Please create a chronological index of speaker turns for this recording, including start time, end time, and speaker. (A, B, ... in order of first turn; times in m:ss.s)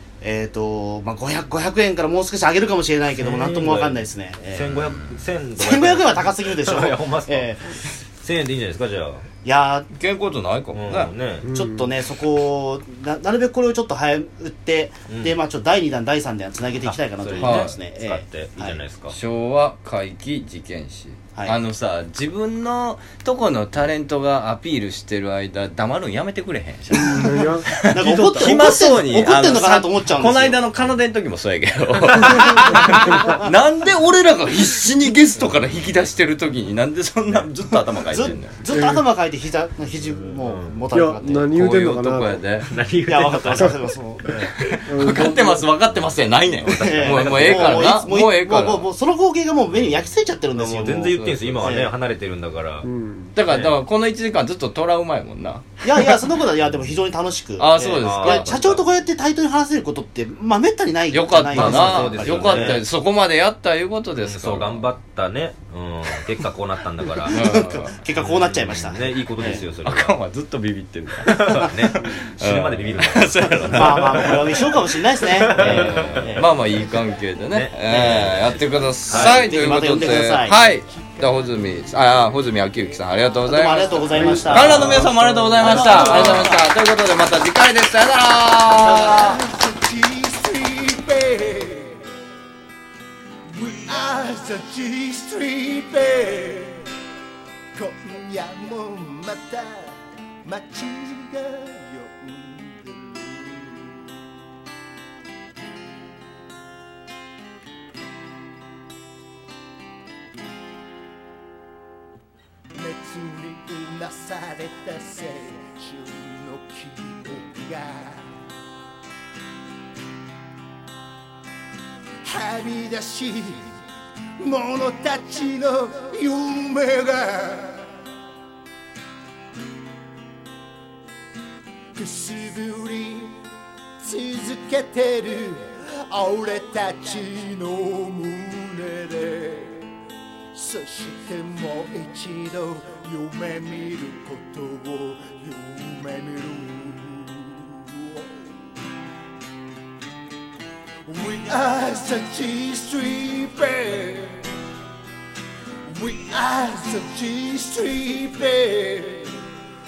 0:00.2-0:05.0 A
0:03.2-0:09.2 B
0:05.6-0:07.8 A
0:09.4-0:09.9 A
0:09.9-0:11.1 C
0:10.7-0:11.4 B
0:11.4-0:11.9 D
0:11.4-0:18.8 A
0:15.1-0:15.4 B
0:16.8-0:19.1 B
0:17.4-0:17.7 C
0:19.1-0:38.6 C
0:26.9-0:27.7 D
0:27.9-0:30.6 A
0:33.2-0:33.5 A
0:38.1-0:41.5 A
0:38.6-0:39.0 D
0:40.0-0:40.8 B
0:40.9-0:42.4 D
0:41.5-0:42.7 C
0:42.6-0:44.5 B
0:43.0-0:44.4 A
0:44.6-0:48.9 C
0:44.8-0:45.7 D
0:46.7-0:48.0 B
0:46.7-0:51.9 A
0:49.7-0:52.9 B
0:51.1-0:51.7 C
0:52.8-0:53.3 D
0:53.4-0:55.6 C
0:53.5-0:53.8 B
0:55.8-1:02.8 A
0:56.6-0:57.0 B
0:57.6-0:58.6 C
0:58.0-0:58.9 B
1:01.1-1:04.8 C
1:01.5-1:02.8 B
1:04.2-1:07.5 B
1:07.3-1:08.0 C
1:07.3-1:09.6 A
1:08.1-1:10.2 B
1:09.8-1:14.4 C
1:11.3-1:16.6 B
1:11.6-1:12.0 A
1:13.7-1:16.5 A
1:15.6-1:29.3 C
1:17.5-1:19.7 B
1:17.8-1:18.3 A
1:19.1-1:20.6 A
1:20.5-1:21.5 E
1:23.4-1:25.0 A
1:24.1-1:26.2 D
1:24.2-1:25.0 B
1:25.6-1:26.6 A
1:25.9-1:26.4 B
1:28.8-1:29.2 A
1:28.8-1:32.0 E
1:33.5-1:36.8 E
1:37.7-1:43.9 E
1:52.7-1:58.3 E
2:02.2-2:03.8 E
2:04.4-2:07.9 E
2:11.9-2:13.4 E
2:14.0-2:19.8 E
2:20.5-2:28.4 E
2:31.0-2:34.4 E
2:35.9-2:39.4 E